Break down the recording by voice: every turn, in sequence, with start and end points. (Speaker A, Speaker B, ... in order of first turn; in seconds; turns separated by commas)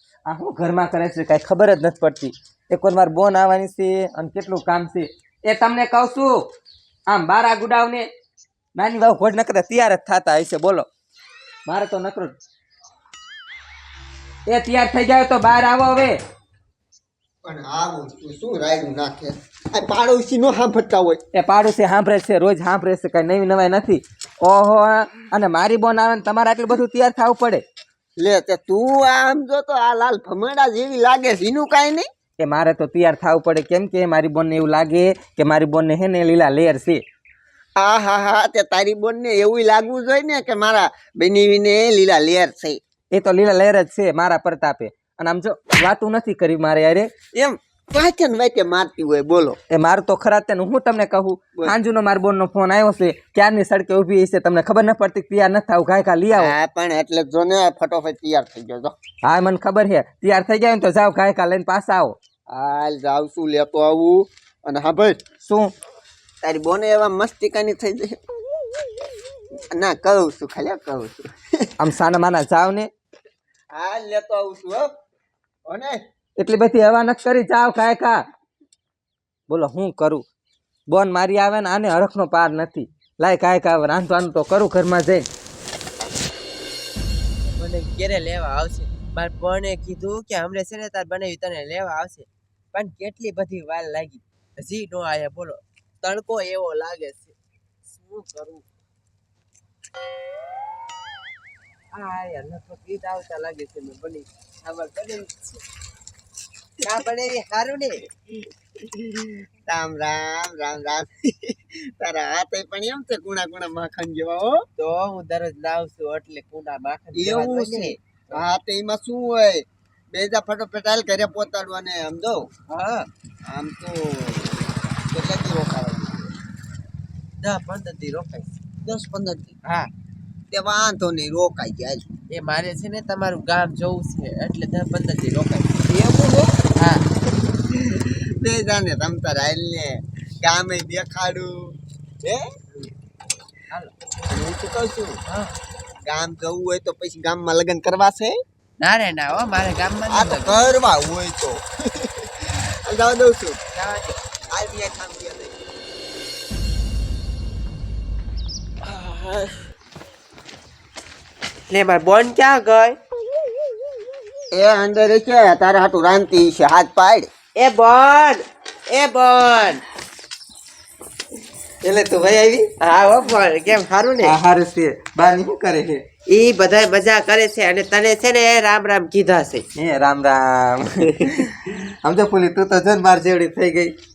Speaker A: 0.3-6.4, Speaker A: 7.1-8.1, Speaker A: 8.8-10.9, Speaker A: 11.7-12.3, Speaker A: 14.5-16.2, Speaker B: 17.4-21.2, Speaker A: 21.3-27.6, Speaker B: 28.2-32.1, Speaker A: 32.4-37.0, Speaker B: 37.8-42.8, Speaker A: 43.1-47.2, Speaker B: 47.3-49.6, Speaker A: 49.7-56.5, Speaker B: 56.3-58.9, Speaker A: 59.2-62.2, Speaker B: 62.5-65.2, Speaker A: 65.4-65.7, Speaker B: 66.4-68.2, Speaker B: 69.7-71.7, Speaker A: 71.8-72.9, Speaker B: 73.7-74.9, Speaker B: 75.7-76.0, Speaker A: 76.4-78.2, Speaker A: 79.5-80.2, Speaker A: 80.9-85.3, Speaker C: 87.5-97.3, Speaker C: 97.9-98.6, Speaker C: 101.9-105.6, Speaker C: 106.8-108.1, Speaker B: 109.7-114.6, Speaker C: 114.8-118.4, Speaker B: 117.2-122.5, Speaker C: 122.7-123.1, Speaker B: 123.5-126.3, Speaker C: 127.4-128.6, Speaker B: 128.8-129.6, Speaker B: 130.5-132.1, Speaker C: 132.3-135.7, Speaker B: 135.9-136.6, Speaker C: 136.8-137.0, Speaker B: 137.9-142.4, Speaker B: 144.3-145.2, Speaker B: 146.1-148.4, Speaker C: 148.8-150.7, Speaker B: 150.1-153.6, Speaker C: 153.7-154.2, Speaker B: 154.5-155.6, Speaker C: 161.7-163.0, Speaker B: 164.5-167.3, Speaker C: 167.6-169.8, Speaker A: 171.8-172.7, Speaker C: 172.8-174.4, Speaker A: 174.2-176.0, Speaker C: 176.3-179.6, Speaker A: 179.8-183.9